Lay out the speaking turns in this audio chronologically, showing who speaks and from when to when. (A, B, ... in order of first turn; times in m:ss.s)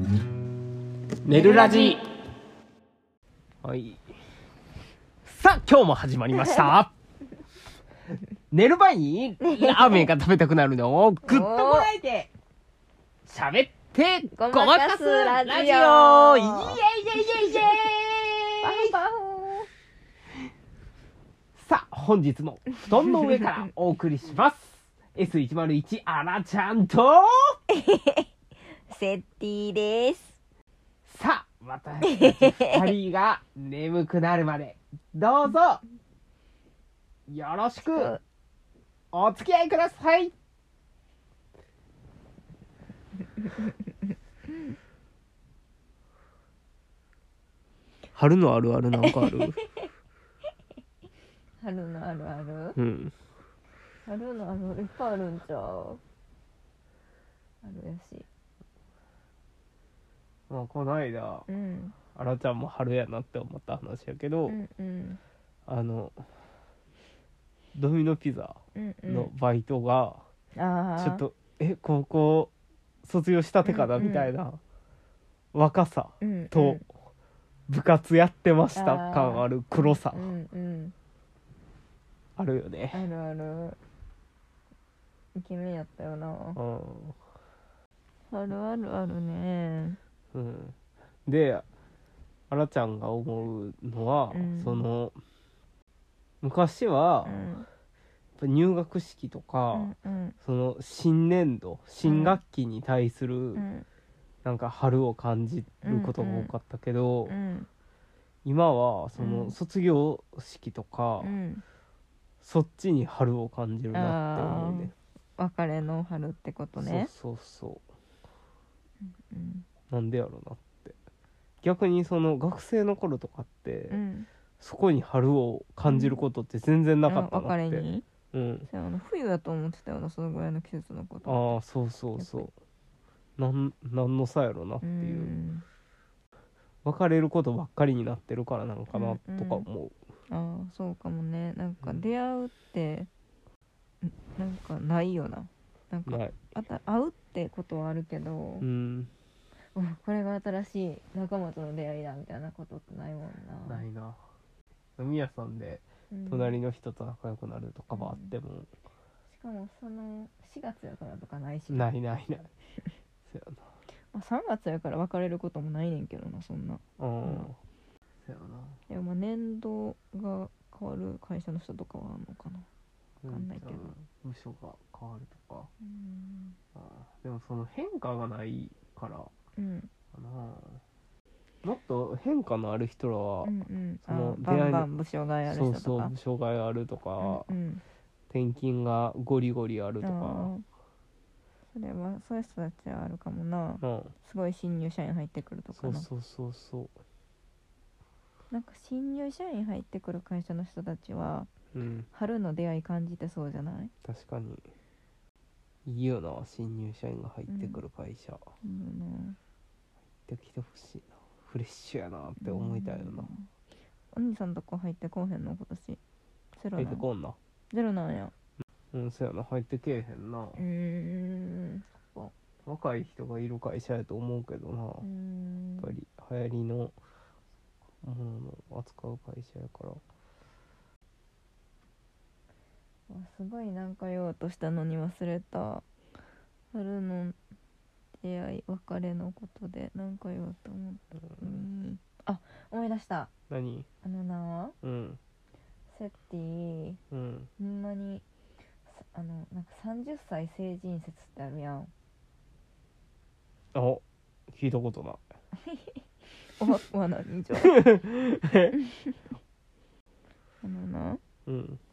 0:01.2-0:02.0 A
0:01.3-0:02.0 B
0:03.6-0:04.0 A
0:05.2-0:06.9 A
0:08.5-0:12.3 A
0:09.4-0:10.1 B
0:11.2-0:11.9 B
0:13.2-0:19.0 A
0:14.3-0:16.8 B
0:18.6-0:19.7 B
0:21.6-0:27.6 A
0:23.2-0:23.5 B
0:27.7-0:28.3 B
0:28.9-0:30.4 B
0:31.0-0:35.8 A
0:32.0-0:32.9 B
0:37.3-0:38.1 A
0:37.8-0:38.2 B
0:39.1-0:40.3 A
0:48.1-0:49.6 A
0:49.0-0:49.5 B
0:51.6-0:52.8 B
0:52.8-0:53.1 A
0:54.0-0:56.0 B
0:57.6-0:58.3 B
1:00.5-1:01.5 A
1:01.5-1:02.0 B
1:02.1-1:04.6 A
1:04.4-1:05.2 B
1:05.6-1:06.3 A
1:07.7-1:10.2 A
1:08.7-1:09.3 B
1:10.6-1:11.2 B
1:11.0-1:12.5 A
1:13.0-1:14.6 A
1:13.6-1:14.3 B
1:15.5-1:16.8 A
1:16.2-1:16.8 B
1:17.7-1:20.3 A
1:18.7-1:20.9 B
1:22.4-1:23.0 A
1:22.9-1:23.8 B
1:25.3-1:26.6 B
1:26.6-1:27.2 A
1:28.3-1:30.0 B
1:30.3-1:31.6 A
1:32.5-1:35.2 A
1:34.3-1:34.8 B
1:36.4-1:37.5 A
1:37.2-1:37.7 B
1:38.4-1:43.6 A
1:39.7-1:40.4 B
1:42.0-1:42.4 B
1:43.5-1:43.8 B
1:44.4-1:47.3 A
1:45.8-1:46.5 B
1:47.3-1:47.7 B
1:48.4-1:51.3 A
1:49.2-1:49.5 B
1:51.2-1:51.6 B
1:52.4-1:54.9 A
1:53.9-1:57.1 B
1:56.8-1:57.8 A
1:59.0-1:59.7 B
1:59.9-2:01.0 A
2:01.6-2:04.0 A
2:03.9-2:04.3 B
2:04.6-2:08.7 A
2:05.8-2:06.2 B
2:07.0-2:08.0 B
2:08.7-2:11.6 B
2:11.2-2:12.5 A
2:12.2-2:12.5 B
2:13.4-2:15.3 A
2:14.8-2:15.6 B
2:16.8-2:19.9 A
2:18.9-2:19.7 B
2:20.3-2:23.1 B
2:24.0-2:28.7 B
2:26.1-2:26.4 A
2:28.6-2:29.1 A
2:29.7-2:33.8 B
2:33.6-2:34.2 A
2:35.0-2:38.7 A
2:36.1-2:36.6 B
2:37.9-2:38.3 B
2:39.3-2:41.9 B
2:41.7-2:42.5 A
2:43.2-2:43.7 A
2:44.1-2:47.5 B
2:47.0-2:47.6 A
2:48.2-2:48.8 A
2:48.9-2:52.7 B
2:53.2-2:55.7 A
2:53.3-2:53.9 B
2:55.8-2:56.6 B
2:56.7-2:59.3 A
2:59.6-2:59.9 B
3:00.1-3:00.8 A
3:01.6-3:03.5 A
3:03.4-3:06.1 B
3:04.0-3:04.9 A
3:05.4-3:07.5 A
3:07.2-3:07.8 B
3:08.3-3:10.5 A
3:10.0-3:10.6 B
3:11.7-3:16.1 B
3:13.8-3:14.1 A
3:15.7-3:16.9 A
3:18.5-3:21.5 B
3:21.7-3:22.1 A
3:22.1-3:23.9 B
3:24.0-3:24.6 A
3:25.8-3:28.4 A
3:27.5-3:27.8 B
3:28.6-3:29.4 B
3:30.2-3:33.3 A
3:32.4-3:33.5 B
3:34.1-3:36.0 B
3:36.6-3:37.0 B
3:36.8-3:37.4 A
3:37.7-3:38.3 B
3:38.9-3:40.6 A
3:40.6-3:42.3 B
3:42.6-3:45.0 A
3:45.0-3:45.9 B
3:45.8-3:46.9 A
3:48.0-3:50.0 A
3:53.1-3:55.8 B
3:56.7-3:57.4 B
3:58.2-4:03.3 B
4:03.5-4:03.9 A
4:04.0-4:04.7 B
4:04.8-4:05.2 A
4:05.9-4:07.0 B
4:07.1-4:07.5 A
4:07.6-4:08.2 B
4:08.9-4:11.9 B
4:13.7-4:15.2 A
4:15.6-4:17.8 B
4:17.6-4:18.8 A
4:18.7-4:19.2 B
4:20.6-4:21.2 B
4:21.4-4:21.8 A